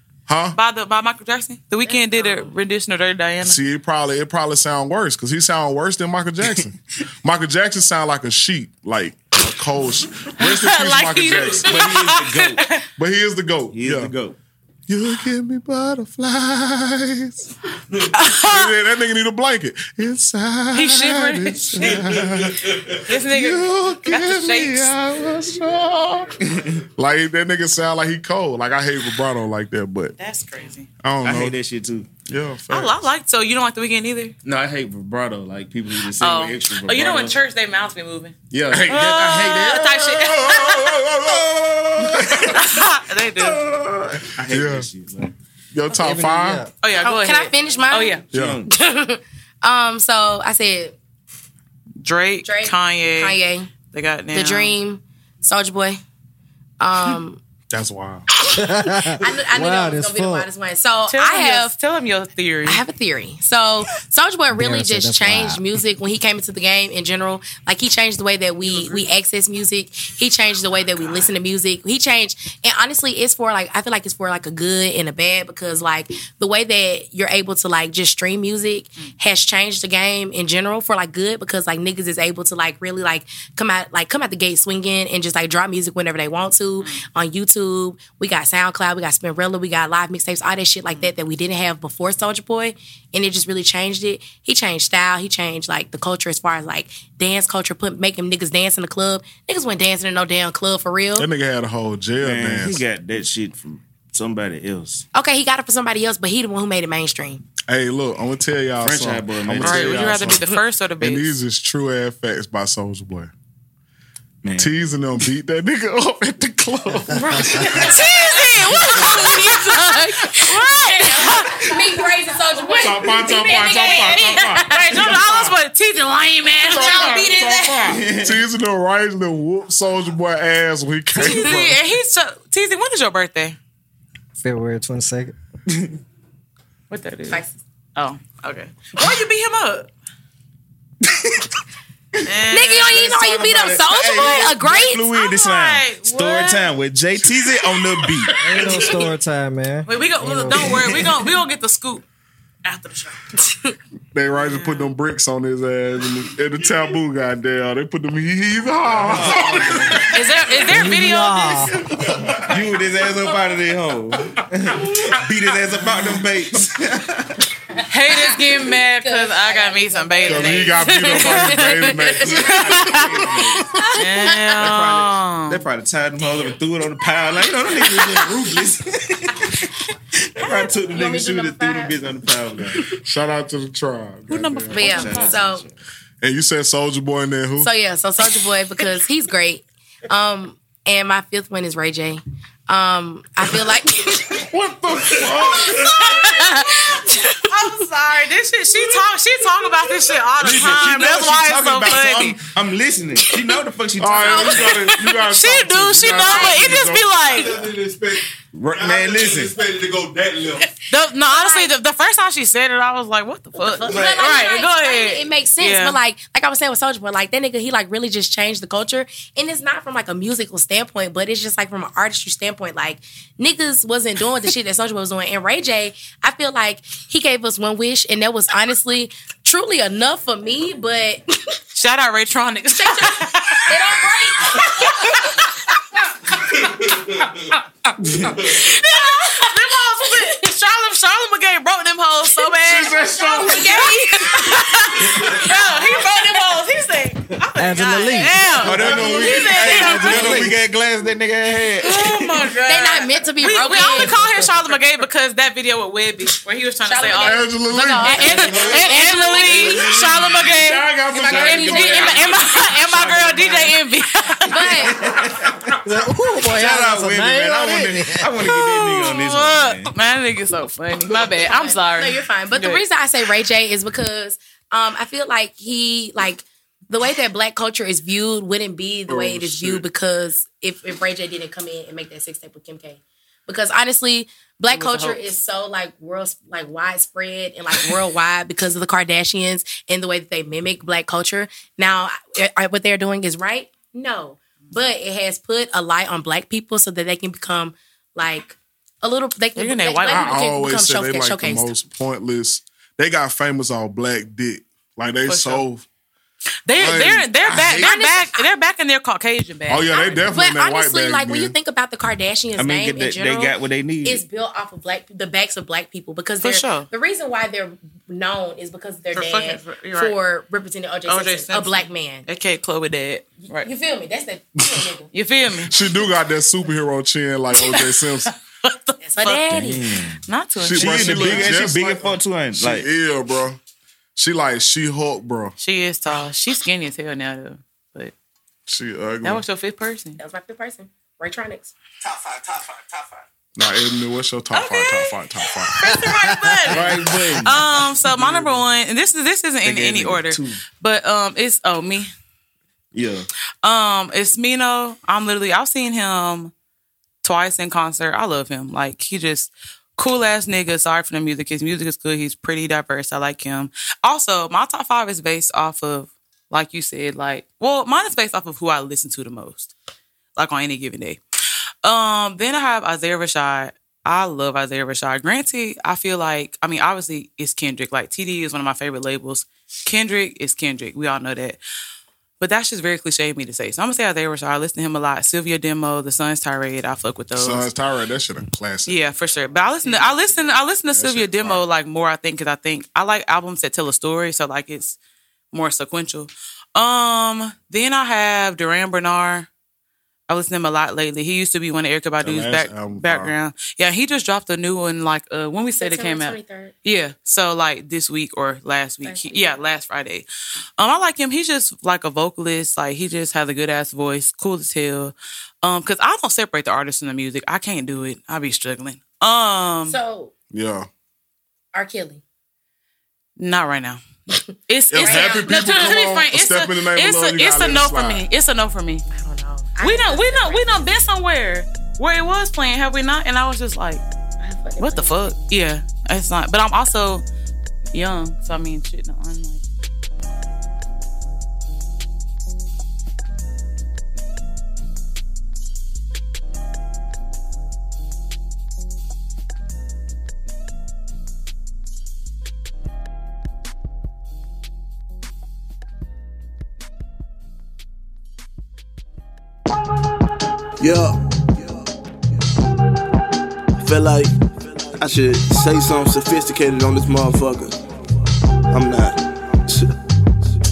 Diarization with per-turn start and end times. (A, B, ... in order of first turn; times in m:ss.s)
0:00.3-0:00.6 A
0:00.5-0:03.6 B
0:01.8-0:02.5 C
0:03.4-0:12.1 A
0:10.4-0:12.8 B
0:11.6-0:12.6 D
0:13.0-0:14.1 A
0:13.7-0:14.4 D
0:14.9-0:17.5 A
0:18.0-0:26.4 A
0:18.1-0:18.7 B
0:20.7-0:22.2 B
0:22.9-0:24.9 B
0:26.4-0:26.8 D
0:26.9-0:30.1 A
0:30.2-0:30.9 B
0:31.0-0:31.6 A
0:31.2-0:32.1 D
0:32.2-0:33.1 A
0:32.7-0:34.3 B
0:34.4-0:37.4 D
0:36.1-0:38.4 B
0:38.5-0:39.8 D
0:38.7-0:42.6 A
0:38.9-0:41.0 B
0:41.2-0:42.6 D
0:42.5-0:43.6 B
0:43.4-0:45.3 D
0:44.4-0:44.9 A
0:45.7-0:46.6 A
0:45.9-0:46.7 E
0:46.8-0:48.2 B
0:47.0-0:51.0 C
0:48.3-0:48.7 D
0:48.3-0:48.6 A
0:52.0-0:54.7 B
0:52.4-0:53.7 C
0:54.3-0:56.0 C
0:56.8-0:57.4 C
0:57.7-0:58.3 A
0:58.5-1:00.5 E
0:59.2-1:01.7 C
1:01.1-1:02.8 B
1:02.6-1:41.3 C
1:04.5-1:05.6 E
1:08.7-1:09.0 B
1:41.2-1:42.8 A
1:42.2-1:45.0 D
1:45.1-1:47.4 C
1:47.7-1:53.3 A
1:48.8-1:50.3 D
1:49.6-1:51.4 B
1:54.4-1:54.8 D
1:54.6-1:58.0 A
1:57.4-1:58.1 C
1:57.4-2:01.6 B
1:58.8-1:59.4 A
1:58.9-1:59.6 C
2:00.2-2:05.1 C
2:02.8-2:05.6 A
2:04.6-2:07.3 B
2:06.6-2:11.8 A
2:06.7-2:08.0 C
2:07.9-2:08.4 D
2:11.1-2:13.6 B
2:14.4-2:15.3 E
2:16.9-2:17.4 B
2:17.3-2:17.6 C
2:18.0-2:19.9 B
2:21.0-2:21.5 D
2:22.2-2:23.0 B
2:22.5-2:25.1 C
2:22.9-2:28.3 D
2:25.1-2:26.7 B
2:28.4-2:31.1 E
2:29.8-2:32.0 B
2:32.6-2:33.2 B
2:33.4-2:33.7 C
2:34.1-2:40.5 A
2:34.4-2:34.9 B
2:38.9-2:40.0 D
2:40.1-2:41.7 B
2:40.7-2:42.1 E
2:42.0-2:42.5 A
2:42.5-2:47.4 D
2:47.9-2:53.1 B
2:48.1-2:52.6 C
2:50.2-2:54.3 A
2:52.1-2:53.7 D
2:54.0-2:55.6 B
2:54.3-2:59.7 D
3:00.3-3:02.9 D
3:00.9-3:02.0 C
3:02.9-3:05.0 A
3:04.3-3:05.4 B
3:04.7-3:05.6 C
3:04.8-3:05.7 D
3:06.2-3:07.7 A
3:07.6-3:14.5 C
3:14.5-3:16.2 A
3:14.6-3:15.7 D
3:15.5-3:17.4 C
3:15.8-3:22.4 B
3:20.4-3:24.9 D
3:24.0-3:27.6 A
3:24.3-3:27.6 B
3:26.2-3:26.6 C
3:27.6-3:28.1 F
3:28.5-3:29.7 D
3:28.7-3:30.5 F
3:30.8-3:36.0 B
3:31.3-3:31.7 C
3:33.5-3:51.6 C
3:51.7-3:53.9 B
3:52.7-3:55.4 C
3:54.5-3:55.4 B
3:58.0-3:58.4 D
3:58.3-4:10.5 B
3:58.9-3:59.5 C
4:02.6-4:05.4 A
4:03.1-4:06.0 C
4:07.6-4:10.5 E
4:08.6-4:12.2 D
4:08.8-4:09.2 A
4:11.8-4:24.8 B
4:12.6-4:14.5 C
4:16.8-4:19.9 C
4:17.1-4:23.7 A
4:19.6-4:20.0 D
4:21.1-4:22.7 C
4:23.0-4:23.6 D
4:24.4-4:24.9 C
4:24.5-4:25.8 A
4:24.8-4:25.8 D
4:25.8-4:28.4 E
4:26.5-4:29.9 D
4:28.4-4:32.8 B
4:31.4-5:01.7 C
4:39.1-4:39.8 A
4:44.7-4:45.2 B
4:59.6-5:00.4 B
5:00.1-5:05.8 A
5:05.2-5:05.6 B
5:06.6-5:10.1 B
5:06.8-5:07.9 A
5:07.6-5:08.5 C
5:09.7-5:11.5 A
5:09.9-5:22.2 C
5:12.6-5:14.2 D
5:16.4-5:16.9 B
5:19.1-5:20.1 B
5:21.1-5:23.7 B
5:23.5-5:25.1 C
5:25.1-5:25.8 B
5:25.6-5:28.3 A
5:27.5-5:31.5 B
5:29.0-5:29.9 C
5:29.5-5:30.2 D
5:30.6-5:33.6 A
5:30.7-5:32.9 D
5:34.2-5:35.5 A
5:35.6-5:38.1 B
5:38.7-5:39.4 A
5:39.2-5:40.2 B
5:40.2-5:41.7 C
5:42.1-5:43.0 D
5:43.6-5:46.0 A
5:44.5-5:52.1 B
5:45.8-5:46.7 E
5:46.7-5:48.6 D
5:46.7-5:47.0 A
5:49.6-5:50.6 D
5:52.9-5:53.3 D
5:53.6-5:56.5 B
5:57.2-6:09.7 B
6:10.4-6:11.2 B
6:11.8-6:21.6 B
6:22.4-6:27.7 B
6:27.4-6:28.9 A
6:28.8-6:35.0 B
6:29.8-6:30.1 A
6:30.9-6:31.6 A
6:35.5-6:39.5 B
6:40.3-6:50.3 B
6:42.2-6:43.3 A
6:45.8-6:46.7 C
6:49.0-6:49.6 C
6:50.8-7:00.0 B
6:59.8-7:00.3 C
7:00.5-7:00.9 A
7:01.7-7:02.2 C
7:03.4-7:04.0 B
7:04.7-7:09.0 B
7:04.9-7:08.2 A
7:05.0-7:05.8 C
7:09.1-7:10.8 C
7:09.8-7:14.0 B
7:14.4-7:15.4 C
7:14.8-7:17.2 B
7:17.9-7:19.6 B
7:40.8-7:41.2 G
7:43.8-7:44.3 G
7:44.9-7:47.7 G
7:48.7-7:49.9 G